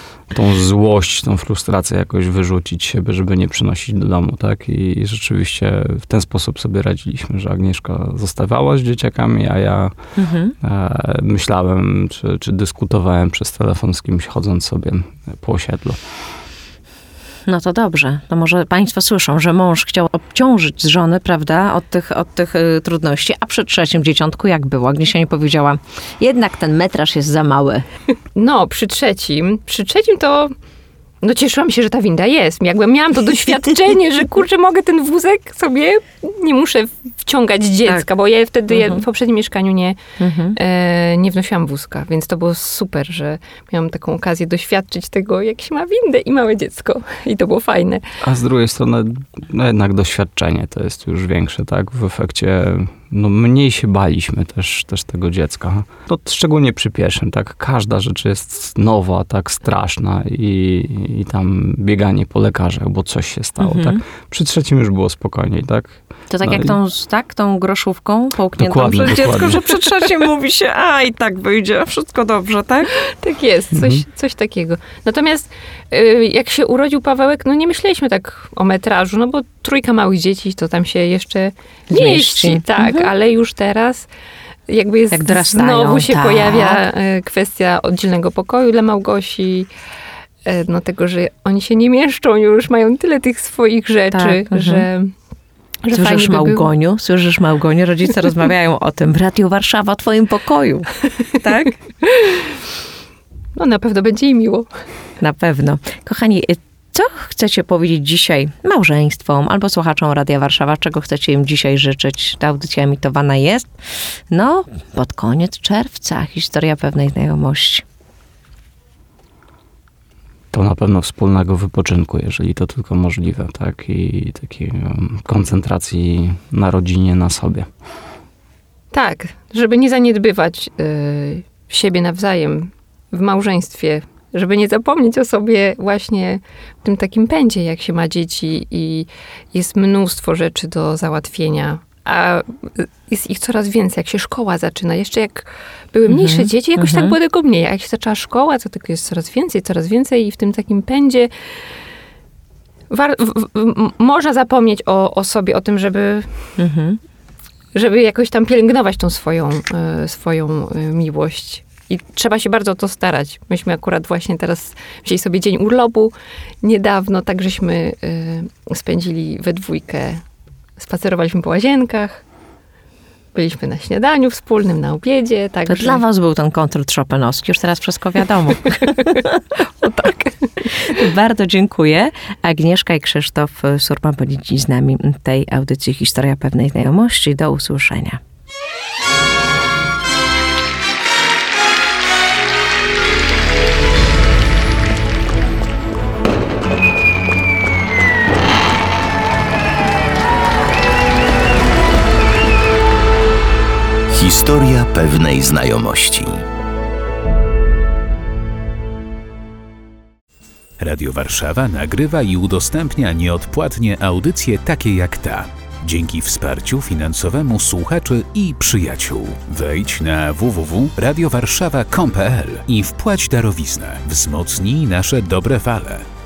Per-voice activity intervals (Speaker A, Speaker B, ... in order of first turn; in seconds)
Speaker A: 0.3-9.9, 10.6-16.0, 48.2-66.7, 68.6-69.7, 73.7-74.0, 120.5-127.7
Speaker B: 10.2-10.6, 17.5-27.8, 38.7-39.0, 40.2-40.5, 63.6-64.0, 66.3-72.9, 81.9-83.1, 85.1-86.8, 94.1-94.9, 95.9-101.8, 105.2-113.7, 114.3-117.8, 146.1-147.2, 156.6-157.0, 175.7-179.3, 180.7-188.2
Speaker C: 28.4-30.5, 31.2-40.0, 40.5-48.1, 72.9-84.1, 84.7-89.7, 90.4-95.1, 95.8-96.7, 102.0-102.5, 103.5-104.7, 128.9-151.3, 152.9-156.3, 157.7-170.2, 170.8-172.2, 173.3-176.0, 179.8-180.3
Speaker D: 204.1-206.4
Speaker E: 210.8-226.1